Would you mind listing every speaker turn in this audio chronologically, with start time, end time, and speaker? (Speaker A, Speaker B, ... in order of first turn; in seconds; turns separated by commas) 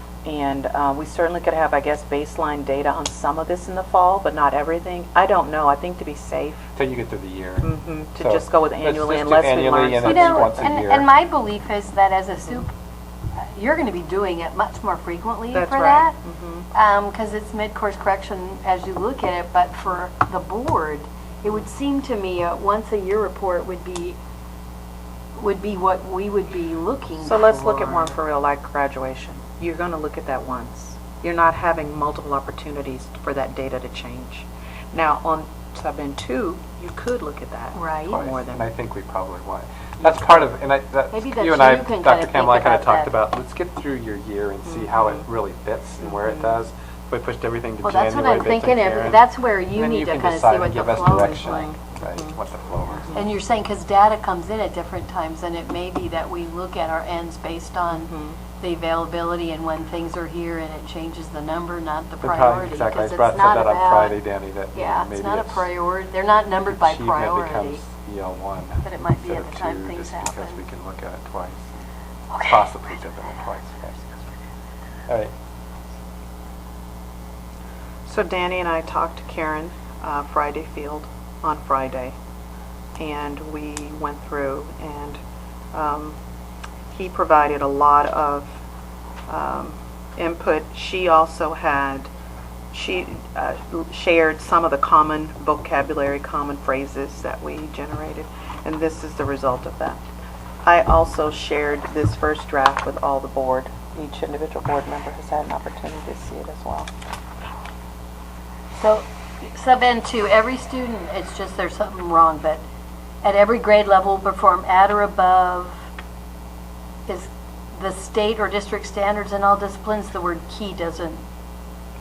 Speaker A: 0.2-6.7, Speaker B: 6.8-11.1, Speaker A: 7.6-10.7, Speaker C: 10.0-12.7, Speaker C: 13.4-16.2, Speaker A: 15.5-16.7, Speaker C: 16.7-24.2, Speaker C: 25.4-28.2, Speaker A: 27.2-38.7, Speaker C: 37.8-38.2, Speaker B: 38.1-53.3, Speaker A: 40.0-40.5, Speaker C: 41.1-43.1, Speaker A: 44.6-45.3, Speaker A: 46.0-46.6, Speaker C: 47.8-51.8, Speaker A: 51.5-52.4, Speaker A: 52.9-53.2, Speaker C: 53.1-64.2, Speaker A: 57.9-58.4, Speaker B: 62.2-65.7, Speaker C: 64.7-67.8, Speaker B: 66.7-71.7, Speaker C: 68.8-70.6, Speaker C: 72.3-72.8, Speaker B: 72.4-74.1, Speaker A: 78.0-82.1, Speaker A: 83.0-85.2, Speaker A: 85.7-86.2, Speaker A: 86.9-88.5, Speaker A: 89.3-92.1, Speaker A: 92.7-100.0, Speaker A: 100.6-106.9, Speaker C: 108.8-112.6, Speaker C: 113.2-115.8, Speaker C: 117.1-121.2